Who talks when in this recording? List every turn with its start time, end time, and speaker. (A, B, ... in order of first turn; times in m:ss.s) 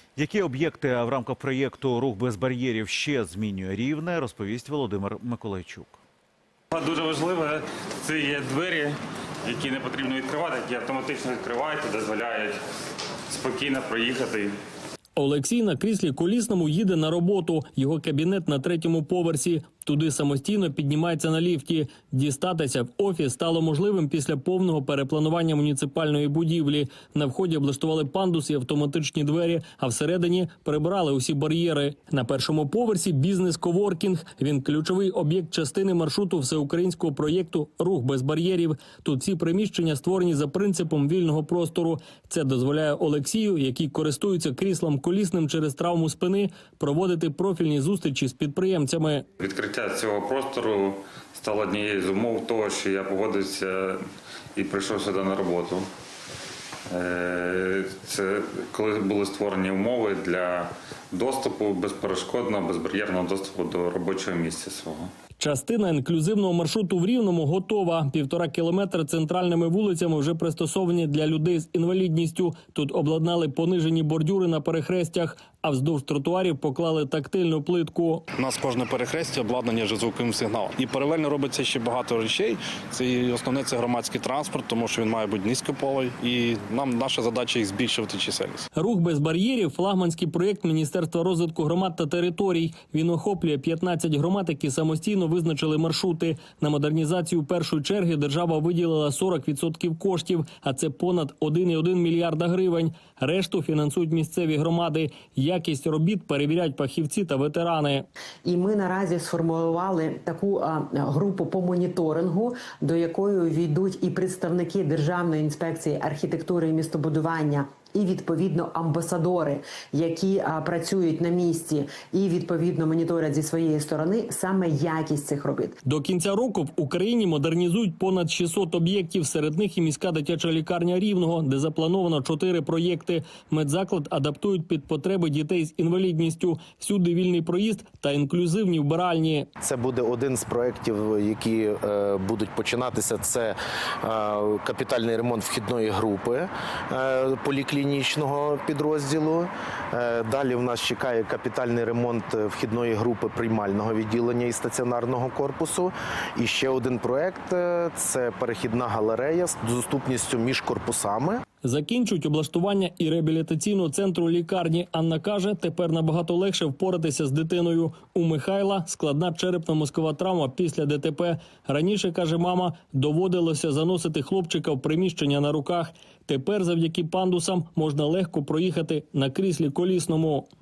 0:00.2-0:06.0 A
0:06.7-0:12.6 B
0:13.3-0:14.5 B
0:15.2-0:49.2 C
0:49.4-0:54.0 B
0:54.6-0:55.8 B
0:56.9-1:05.1 B
1:05.4-1:18.2 C
1:18.4-1:28.6 D
1:28.7-1:48.0 C
1:48.4-2:05.8 E
2:05.8-2:19.5 C
2:19.6-2:41.4 F
2:41.6-3:00.5 C